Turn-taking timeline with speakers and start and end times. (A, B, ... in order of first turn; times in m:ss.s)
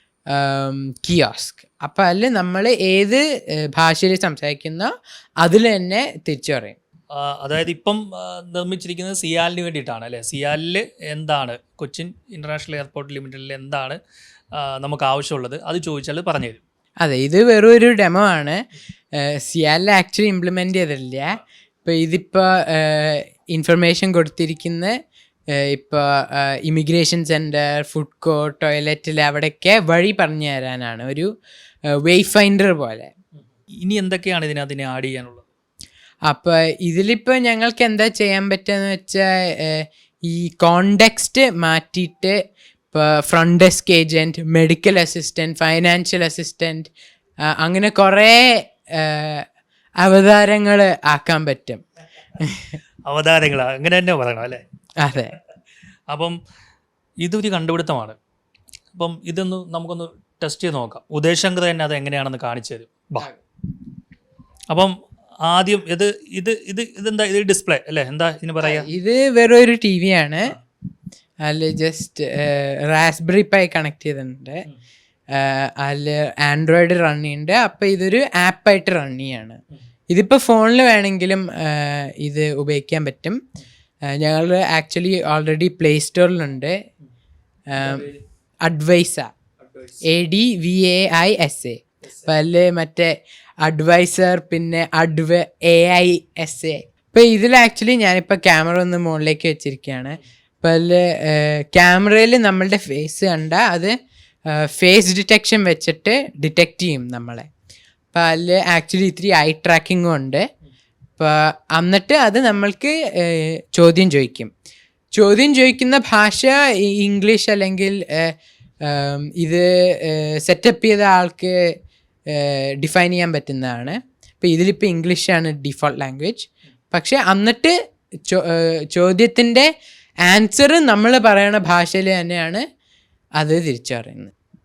0:00.3-0:06.8 A
0:07.2-0:14.0 B
0:14.6-0:16.6 B
0:17.0-0:18.6 A
0:19.2-0:24.9 A
0:25.6-0:31.3 A
0:32.0-0:33.1 A
0:33.8-0:35.4 B
0:36.3-0:42.4 A
0:42.9-0:46.9 A
0:47.5-0:49.4 A
0:50.0-0:51.8 A
0:52.4-0:52.7 A
0:53.1-0:54.6 B
0:55.0-0:55.4 A
0:56.1-0:56.4 B
0:57.2-0:58.2 B
0:58.9-1:03.3 B
1:05.4-1:08.8 B
1:08.6-1:10.5 A
1:11.5-1:14.6 A
1:15.3-1:19.6 A
1:20.1-1:23.4 A
1:24.1-1:26.8 A
1:27.7-1:28.1 A
1:27.8-1:28.2 B
1:28.6-1:29.3 A
1:29.6-1:30.0 B
1:30.0-1:43.9 A
1:44.5-1:47.5 A
1:48.1-1:50.4 A
1:51.2-1:54.5 A
1:55.2-1:58.3 A
1:58.8-2:01.6 A
2:02.3-2:07.7 A
2:08.3-2:09.7 A
2:10.2-2:12.6 A
2:13.4-2:14.3 A